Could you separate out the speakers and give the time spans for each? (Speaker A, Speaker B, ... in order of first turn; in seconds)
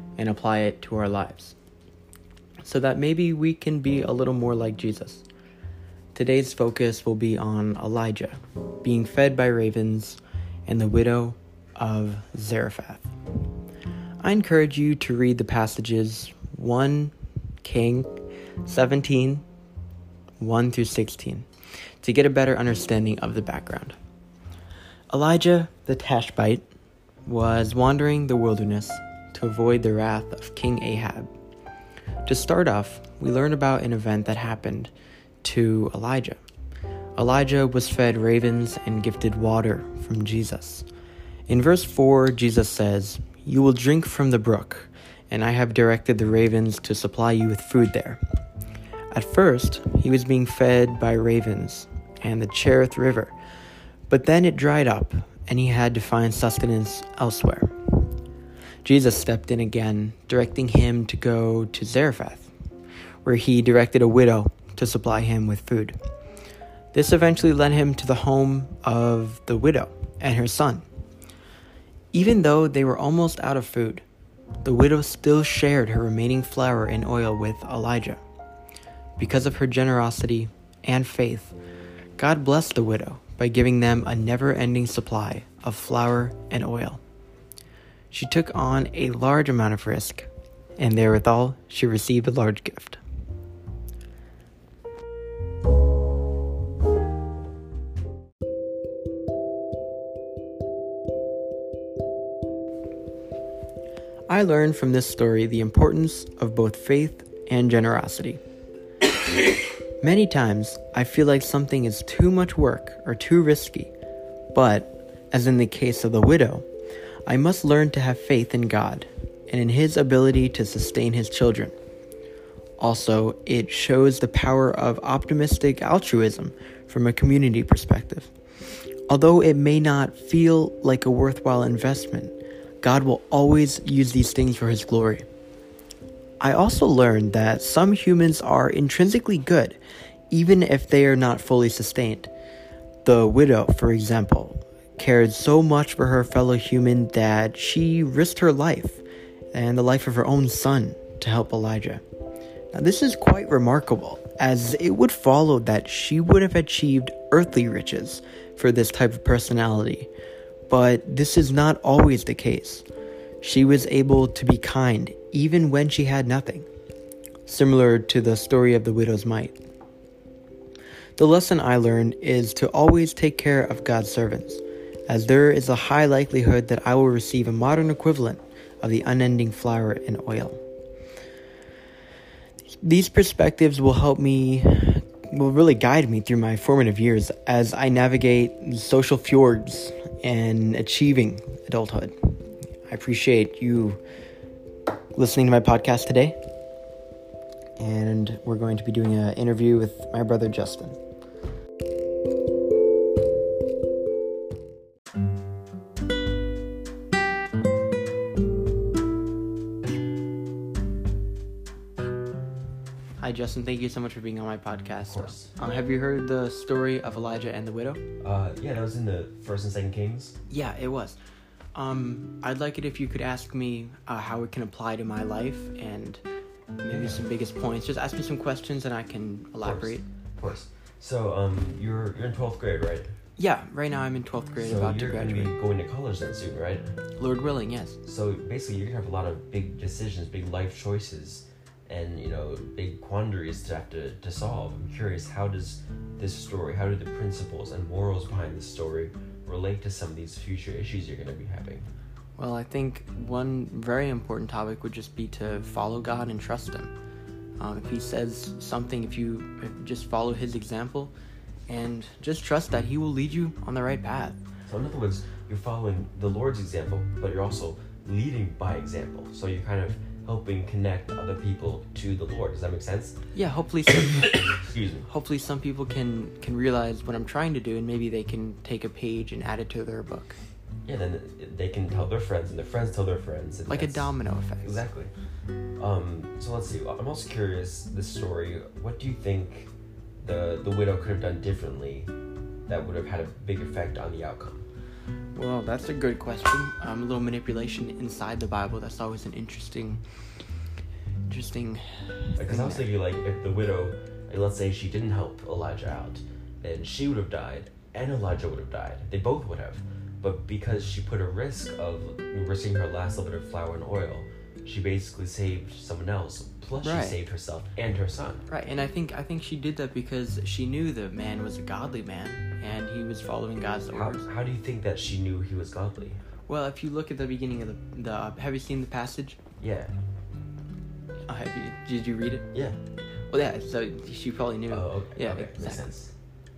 Speaker A: 0.2-1.6, 2.6-5.2, 6.1-13.1, 14.2-18.1, 18.6-19.4, 20.4-21.5, 22.0-24.0, 25.1-26.6, 27.2-31.3, 32.2-34.9, 35.4-36.4, 37.1-40.9, 41.5-48.2, 49.1-53.3, 54.1-57.7, 58.8-62.5, 63.2-66.0, 66.9-70.8, 72.1-74.0, 74.6-78.2, 79.2-81.5, 82.2-87.0, 88.1-93.0, 104.3-108.4, 110.0-113.9, 114.5-116.7, 117.2-121.7, 122.8-128.3, 129.1-135.2, 136.4-139.8, 140.3-142.3, 143.0-152.0, 152.7-160.1, 160.7-162.8, 163.4-166.7, 167.4-169.6, 171.2-180.6, 182.8-192.2, 192.9-194.0, 195.1-196.3, 197.8-201.0, 213.2-218.0, 220.5-221.2, 221.7-226.2, 226.8-230.1, 233.4-235.5, 237.2-238.0, 252.4-256.9, 257.6-261.1, 261.7-264.4, 273.3-274.5, 275.1-280.4, 283.7-284.8, 295.3-300.0, 301.3-302.9, 316.8-317.2, 318.5-324.2, 326.5-329.4, 331.3-332.5, 333.3-335.9
Speaker B: 215.1-215.5, 218.2-220.3, 229.6-233.1, 234.6-236.9, 238.0-251.9, 264.6-273.1, 274.6-275.1, 280.8-285.1, 285.8-289.7, 290.2-292.1, 292.7-294.7, 302.4-318.4, 323.9-326.2, 329.6-329.9, 332.5-332.8, 334.7-336.1